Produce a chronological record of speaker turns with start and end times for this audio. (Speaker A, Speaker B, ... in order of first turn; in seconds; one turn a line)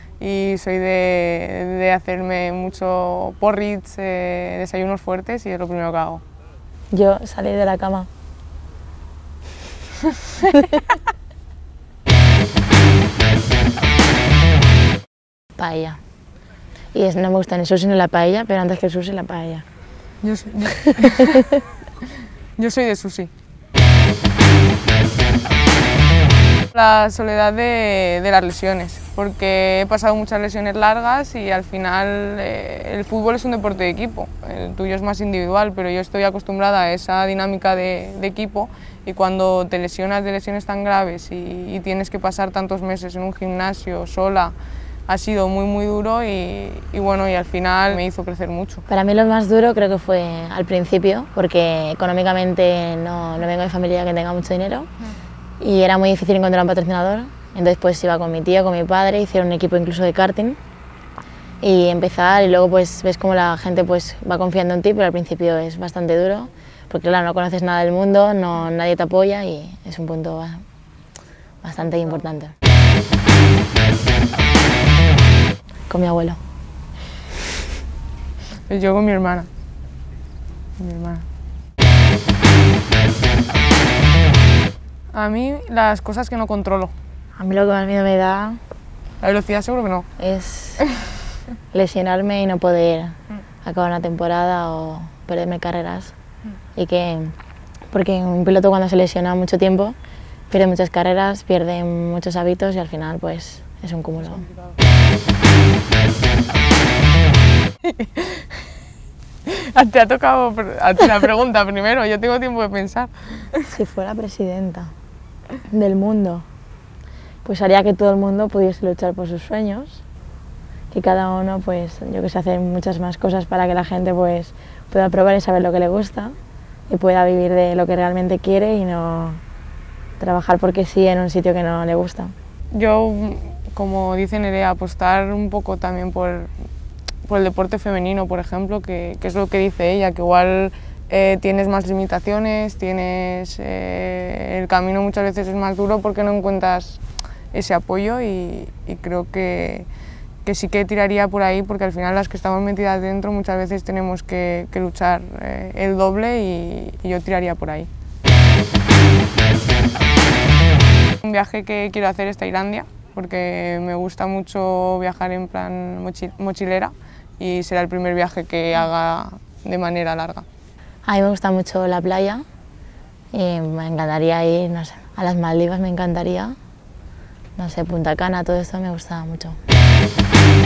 Speaker A: 0.2-6.2
Speaker B: 6.9-8.1
Speaker B: 15.6-16.0
Speaker B: 16.9-19.6
Speaker A: 20.2-21.4
Speaker A: 22.6-23.3
Speaker A: 26.7-44.5
Speaker A: 45.1-48.8
Speaker B: 48.9-54.9
Speaker B: 55.6-60.6
Speaker B: 61.6-70.6
Speaker B: 71.6-72.5
Speaker B: 75.9-76.4
Speaker A: 78.7-79.5
Speaker A: 80.8-81.2
Speaker A: 85.1-86.9
Speaker B: 87.3-88.6
Speaker A: 89.2-90.1
Speaker B: 90.2-90.8
Speaker B: 91.7-96.1
Speaker B: 96.7-97.3
Speaker B: 97.9-100.0
Speaker B: 100.5-104.4
Speaker A: 107.8-108.5
Speaker A: 109.5-113.6
Speaker B: 113.7-114.9
Speaker B: 115.7-116.5
Speaker B: 117.4-120.0
Speaker B: 120.9-126.3
Speaker B: 126.9-129.4
Speaker B: 130.2-132.3
Speaker A: 132.7-136.5
Speaker A: 137.3-149.9
Speaker A: 150.4-157.9
Speaker A: 161.2-170.4
Speaker B: 171.0-172.4
Speaker B: 173.3-176.6
Speaker B: 177.6-179.6